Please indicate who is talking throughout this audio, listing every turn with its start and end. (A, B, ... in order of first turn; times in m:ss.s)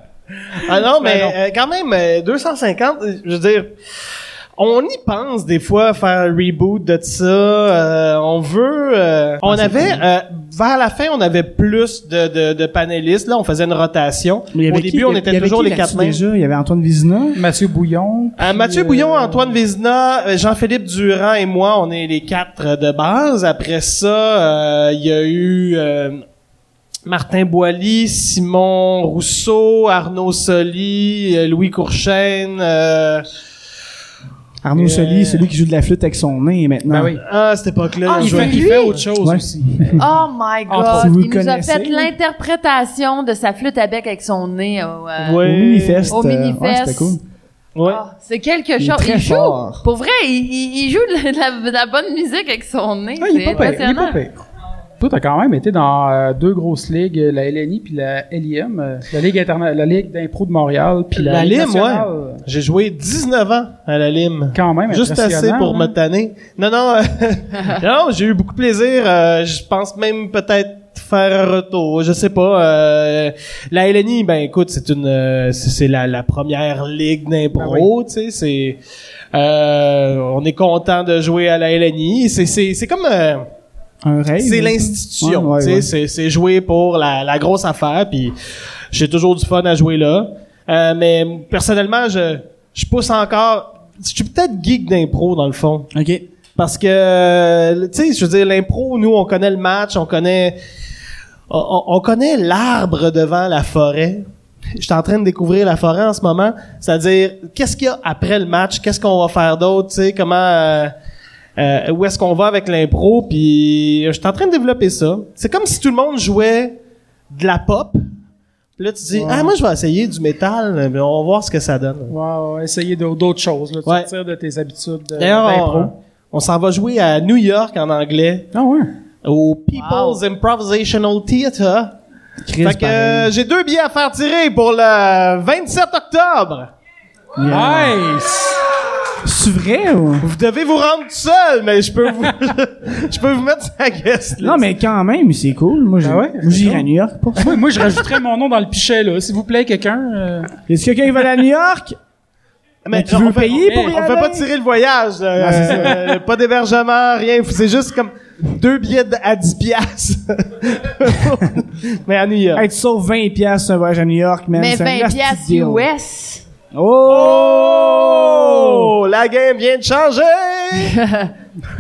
0:00.6-0:01.4 A
0:00.6-0:03.7 B
0:04.6-0:16.2 B
0:09.4-0:10.0 C
0:14.5-0:17.4 C
0:17.4-0:19.6 A
0:18.4-0:26.2 B
0:27.0-0:33.3 B
0:34.6-0:37.2 C
0:34.8-0:35.5 B
0:36.9-0:37.2 A
0:37.2-0:39.0 B
0:38.0-0:38.9 D
0:38.2-0:40.0 A
0:39.2-0:40.0 C
0:40.0-0:45.4 D
0:40.7-0:41.1 A
0:40.9-0:42.1 C
0:45.2-0:46.1 B
0:45.4-0:47.2 C
0:46.1-0:47.2 D
0:47.8-0:48.0 B
0:47.8-0:54.2 D
0:48.8-0:49.8 C
0:53.2-0:54.5 A
0:55.0-1:02.4 A
1:01.1-1:18.8 B
1:04.5-1:05.9 A
1:17.5-1:17.9 A
1:19.3-1:23.5 B
1:24.0-1:25.9 C
1:24.4-1:28.3 B
1:28.9-1:35.9 B
1:35.9-1:36.2 C
1:36.6-1:40.6 B
1:41.5-1:44.2 B
1:44.8-1:50.9 B
1:51.6-1:56.8 B
1:57.3-1:58.0 B
1:58.8-2:02.1 B
1:59.1-1:59.5 A
2:02.1-2:05.9 A
2:05.2-2:08.5 B
2:08.5-2:08.9 A
2:09.2-2:12.0 B
2:09.7-2:10.2 D
2:12.4-2:13.3 C
2:12.6-2:16.7 B
2:17.4-2:18.0 C
2:17.5-2:18.6 A
2:19.2-2:20.2 C
2:20.2-2:24.6 B
2:24.4-2:27.6 C
2:26.0-2:26.9 A
2:27.4-2:30.5 A
2:30.7-2:32.0 C
2:32.8-2:42.7 B
2:32.9-2:34.5 C
2:35.4-2:36.0 C
2:42.5-2:45.9 C
2:44.6-2:46.4 D
2:46.7-2:48.9 C
2:47.1-2:51.0 B
2:50.8-2:51.3 D